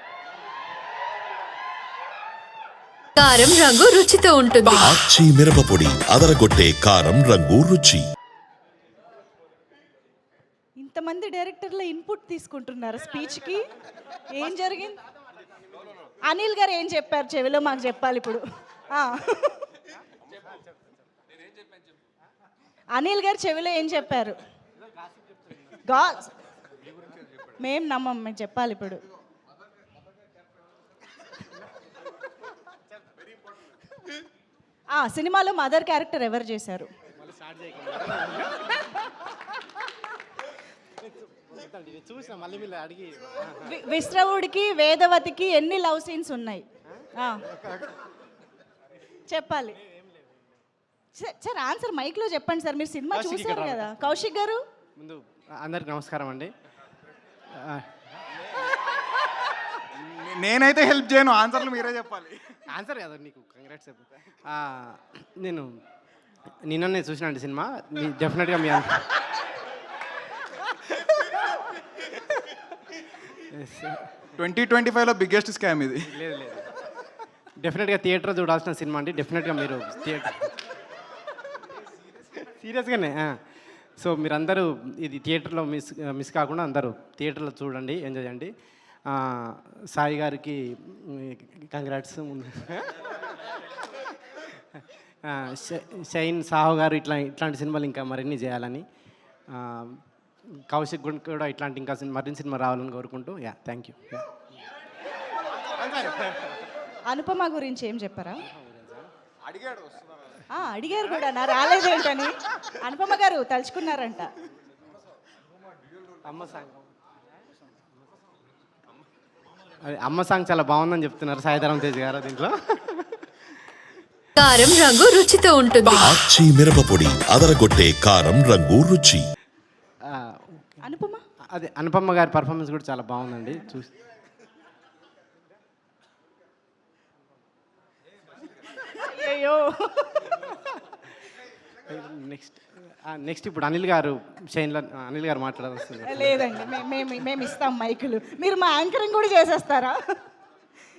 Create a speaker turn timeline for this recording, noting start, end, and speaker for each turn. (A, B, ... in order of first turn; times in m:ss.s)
0:03.2-0:04.9 A
0:04.7-0:08.0 B
0:10.8-0:13.7 C
0:14.3-0:15.0 C
0:16.2-0:19.7 C
0:22.9-0:24.4 C
0:25.7-0:26.3 C
0:27.4-0:29.0 C
0:34.9-0:36.9 C
0:37.1-0:39.0 D
0:41.0-0:43.8 D
0:43.6-0:47.4 C
0:47.5-0:48.0 D
0:49.3-0:49.8 C
0:51.1-0:54.6 C
0:53.1-0:54.3 D
0:55.0-0:56.5 D
0:57.5-0:57.9 D
0:59.8-1:02.6 E
1:02.7-1:05.8 D
1:06.5-1:09.3 D
1:11.0-1:11.3 D
1:13.3-1:14.3 D
1:14.4-1:16.1 E
1:16.0-1:16.9 D
1:17.6-1:20.5 D
1:22.1-1:28.5 D
1:29.0-1:33.2 D
1:34.3-1:38.8 D
1:39.5-1:44.4 D
1:45.6-1:46.7 D
1:47.1-1:48.4 C
1:48.5-1:49.1 D
1:50.5-1:54.3 C
1:56.2-1:56.9 D
1:59.8-2:03.9 D
2:04.4-2:06.1 A
2:05.9-2:09.2 B
2:10.0-2:10.8 D
2:10.8-2:11.2 C
2:11.5-2:13.9 D
2:18.8-2:20.4 C
2:20.5-2:21.0 D
2:21.8-2:27.2 D
2:26.0-2:30.0 C